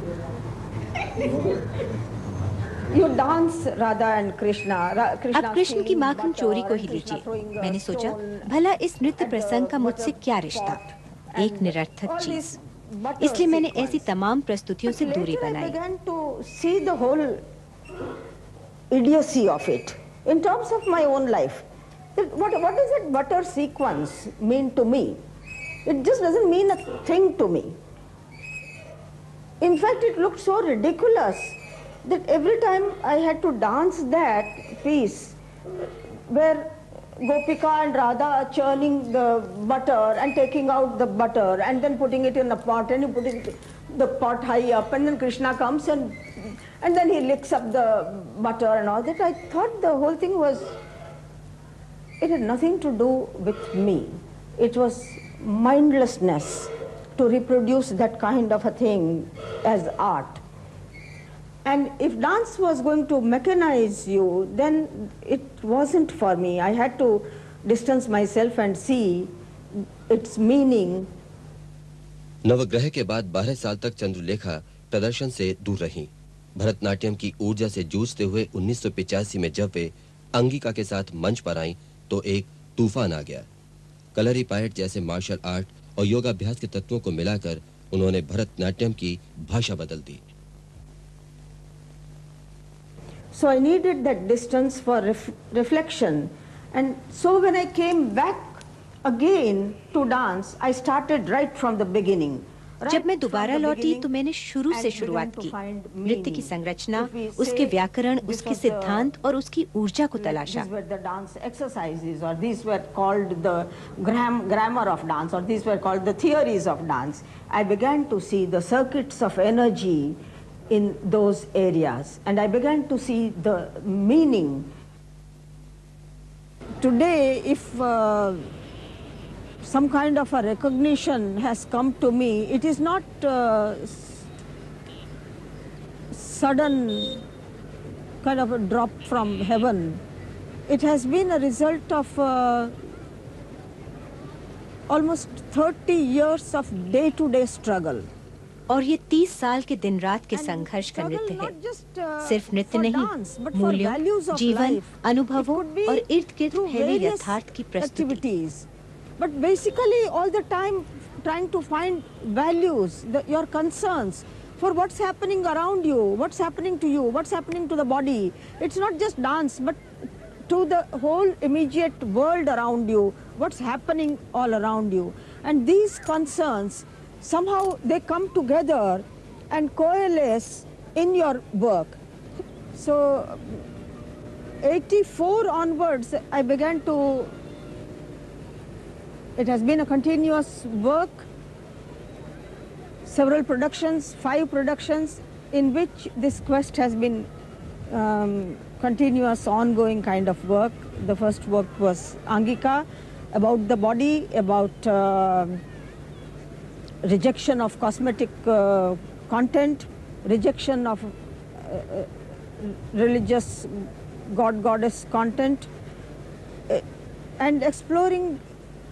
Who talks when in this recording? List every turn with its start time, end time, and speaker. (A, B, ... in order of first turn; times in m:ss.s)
0:02.9-0:08.5 A
0:05.3-0:10.8 B
0:09.2-0:14.1 A
0:11.3-0:12.6 B
0:13.2-0:15.8 B
0:14.9-0:17.4 A
0:18.9-0:25.2 A
0:25.8-0:27.7 A
0:29.6-0:35.4 A
0:36.3-0:50.8 A
0:52.2-1:00.4 A
1:01.6-1:09.3 A
1:10.1-1:11.1 A
1:12.4-1:23.5 C
1:24.1-1:30.2 C
1:33.3-1:44.1 A
1:42.9-1:50.7 B
1:44.7-1:49.1 A
1:50.2-2:00.2 A
2:00.7-2:04.7 A
2:06.8-2:08.5 A
2:09.6-2:14.3 A
2:16.1-2:17.2 A
2:18.2-2:20.0 A
2:20.7-2:22.7 A
2:24.9-2:28.0 A
2:28.7-2:31.5 B
2:30.3-2:38.7 A
2:32.2-2:38.2 B
2:39.2-2:49.8 A
2:50.5-3:02.0 A
3:02.7-3:03.6 A
3:04.6-3:07.3 A
3:09.4-3:11.3 A
3:13.0-3:17.3 A
3:17.9-3:25.6 A
3:27.0-3:35.7 A
3:37.4-3:38.4 A